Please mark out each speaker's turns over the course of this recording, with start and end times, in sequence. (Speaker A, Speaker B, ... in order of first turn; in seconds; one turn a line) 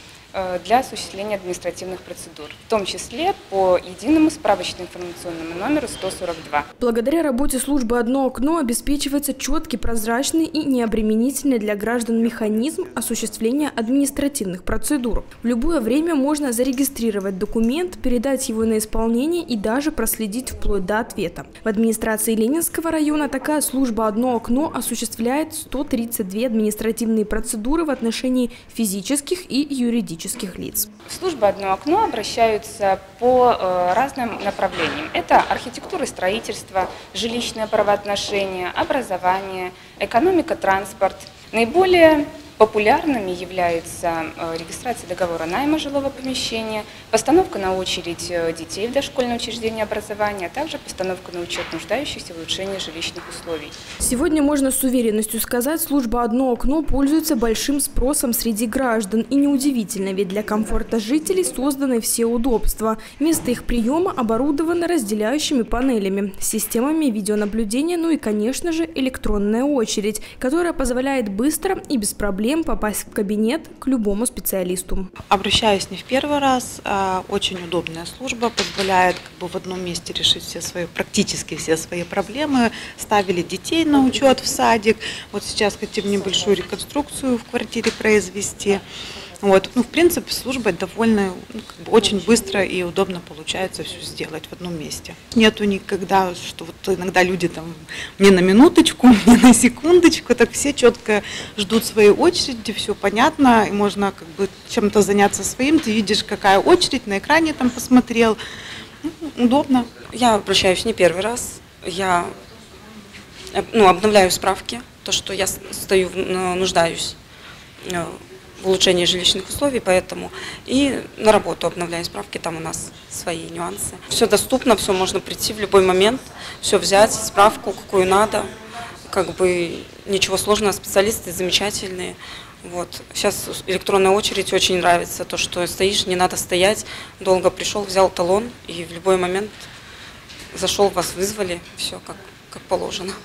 Speaker A: 0.3-6.7
Speaker B: 6.8-30.9
Speaker A: 31.1-53.8
Speaker B: 54.0-75.1
Speaker C: 75.3-88.8
Speaker C: 89.4-108.4
Speaker C: 109.0-109.9
Speaker D: 110.1-112.3
Speaker D: 113.5-117.2
Speaker D: 117.8-128.5
Speaker D: 129.1-139.7
Speaker D: 140.5-143.2